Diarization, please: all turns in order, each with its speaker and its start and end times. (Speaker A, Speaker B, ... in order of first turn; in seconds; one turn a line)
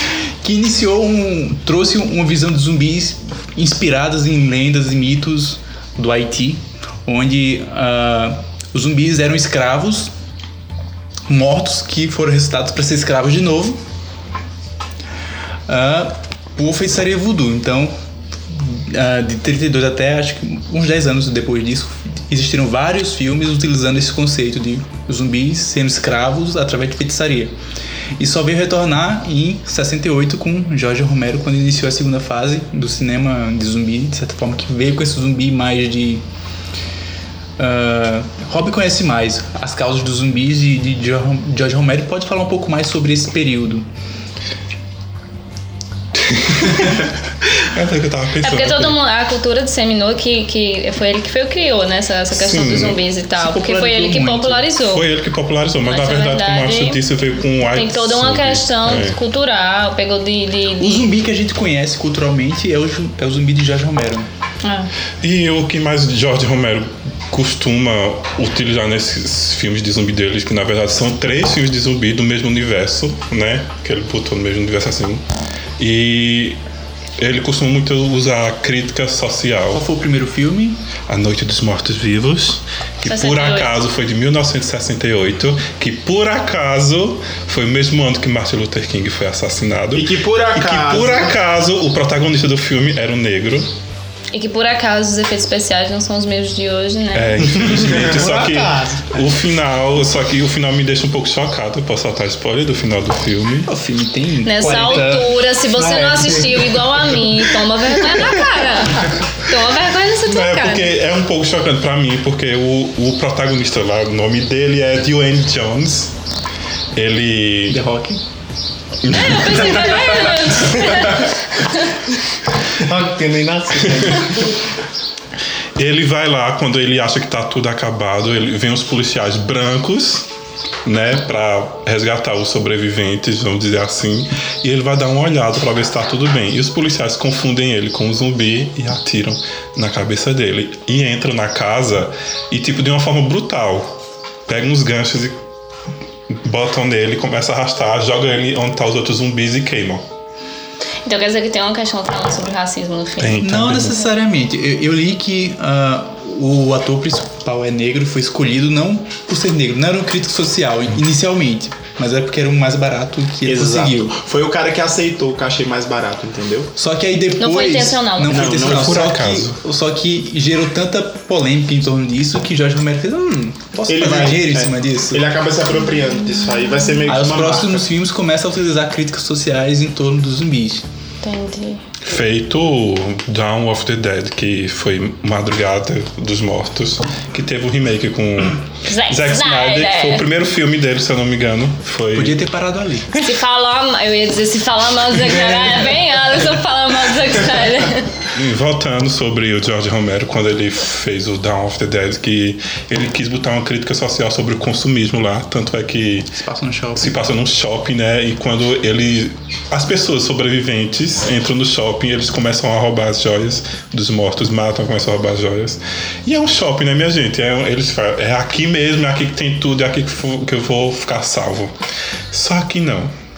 Speaker A: 0.4-10.1
Speaker A: 11.3-13.8
Speaker A: 15.7-17.9
Speaker A: 18.5-27.5
Speaker A: 28.2-36.2
Speaker A: 37.6-43.9
Speaker B: 46.3-47.1
Speaker B: 47.6-49.0
Speaker C: 48.4-55.1
Speaker B: 52.3-53.0
Speaker A: 53.4-54.7
Speaker B: 54.8-59.2
Speaker C: 55.9-57.0
Speaker C: 57.7-61.1
Speaker A: 60.8-64.3
Speaker C: 64.6-64.9
Speaker B: 65.2-75.2
Speaker B: 75.8-76.6
Speaker B: 77.2-79.8
Speaker A: 79.7-80.8
Speaker B: 81.1-93.7
Speaker C: 83.1-83.7
Speaker D: 89.9-91.4
Speaker C: 94.3-97.7
Speaker B: 97.1-103.7
Speaker E: 97.7-99.2
Speaker A: 103.7-105.2
Speaker C: 104.4-111.0
Speaker E: 104.6-107.4
Speaker B: 110.2-116.1
Speaker B: 116.9-117.8
Speaker A: 117.7-118.2
Speaker B: 119.0-121.0
Speaker C: 119.1-122.0
Speaker E: 122.8-124.5
Speaker B: 125.8-130.3
Speaker B: 130.8-145.4
Speaker B: 146.3-150.1
Speaker C: 151.1-153.5
Speaker B: 153.2-154.0
Speaker A: 153.4-164.2
Speaker D: 163.5-166.7
Speaker A: 166.8-175.2
Speaker C: 167.4-168.5
Speaker D: 168.3-169.1
Speaker B: 168.5-169.6
Speaker D: 173.9-177.9
Speaker C: 176.0-177.0
Speaker A: 177.1-180.8
Speaker C: 181.2-181.8
Speaker B: 182.1-192.4
Speaker C: 188.9-190.2
Speaker A: 192.1-193.2
Speaker C: 193.2-198.2
Speaker B: 198.3-206.3
Speaker A: 206.3-207.2
Speaker B: 207.0-221.7
Speaker B: 222.3-223.1